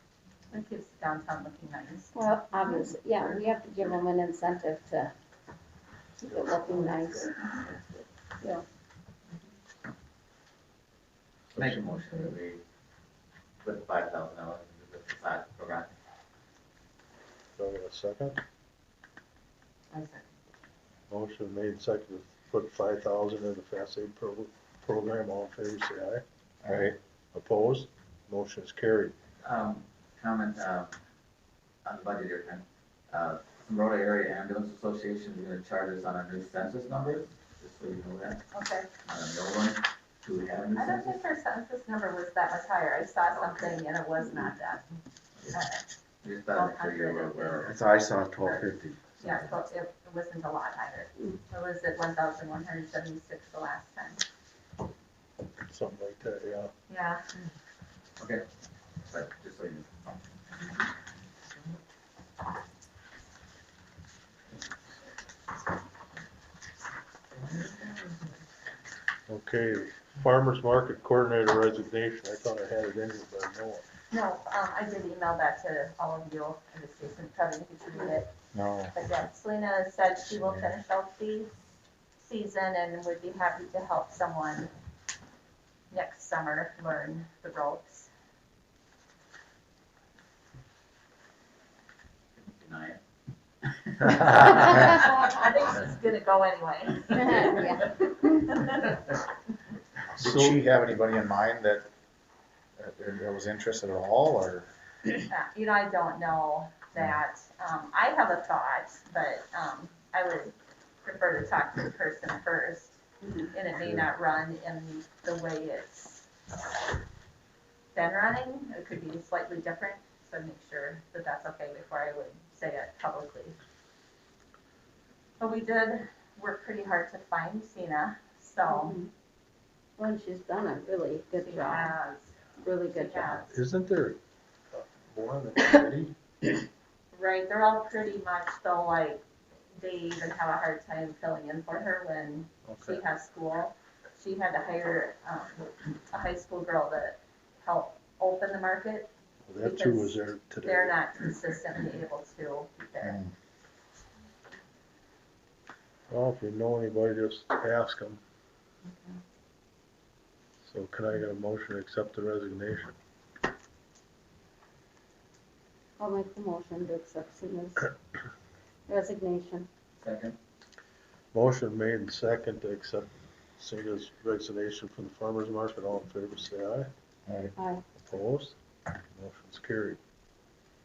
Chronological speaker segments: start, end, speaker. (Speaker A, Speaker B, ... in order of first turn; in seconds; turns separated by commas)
Speaker A: 0.5-3.4, Speaker B: 2.1-5.1, Speaker B: 6.2-7.3, Speaker C: 6.3-6.8, Speaker D: 11.5-12.6, Speaker D: 13.6-15.9, Speaker C: 17.6-18.4, Speaker A: 19.9-20.2, Speaker C: 21.1-29.1, Speaker E: 26.6-26.9, Speaker D: 29.4-30.9, Speaker D: 31.8-38.4, Speaker A: 38.5-38.9, Speaker D: 39.0-41.2, Speaker A: 40.8-44.9, Speaker A: 45.5-45.8, Speaker D: 46.2-47.7, Speaker A: 46.5-48.7, Speaker E: 47.6-49.4, Speaker A: 49.2-54.2, Speaker C: 55.7-56.7, Speaker A: 56.9-57.4, Speaker D: 58.2-58.4, Speaker D: 59.1-59.9, Speaker D: 67.3-68.2, Speaker C: 69.3-73.8, Speaker A: 74.1-78.3, Speaker E: 78.5-78.9, Speaker A: 78.9-81.5, Speaker A: 82.2-84.7, Speaker A: 85.9-88.1, Speaker D: 92.3-93.0, Speaker D: 93.6-95.0, Speaker E: 94.1-94.9, Speaker A: 94.5-99.2, Speaker B: 97.1-98.4, Speaker C: 100.1-100.6, Speaker E: 100.2-101.8, Speaker E: 102.8-104.7, Speaker A: 105.3-116.3, Speaker A: 117.9-123.5, Speaker A: 125.4-129.0, Speaker B: 128.7-129.1, Speaker B: 130.0-131.9, Speaker A: 131.4-133.5, Speaker B: 132.6-133.5, Speaker C: 133.4-134.2, Speaker C: 134.7-136.2, Speaker A: 137.1-139.2, Speaker A: 139.8-149.1, Speaker C: 142.6-143.0, Speaker C: 149.4-151.0, Speaker A: 149.6-153.2, Speaker E: 153.0-153.3, Speaker C: 156.1-158.2, Speaker A: 158.8-159.2, Speaker C: 160.6-162.9, Speaker B: 166.0-167.9, Speaker B: 168.9-169.7, Speaker D: 170.0-170.3, Speaker C: 171.3-176.9, Speaker E: 177.2-177.5, Speaker B: 177.6-177.8, Speaker C: 178.0-178.6, Speaker C: 179.1-180.0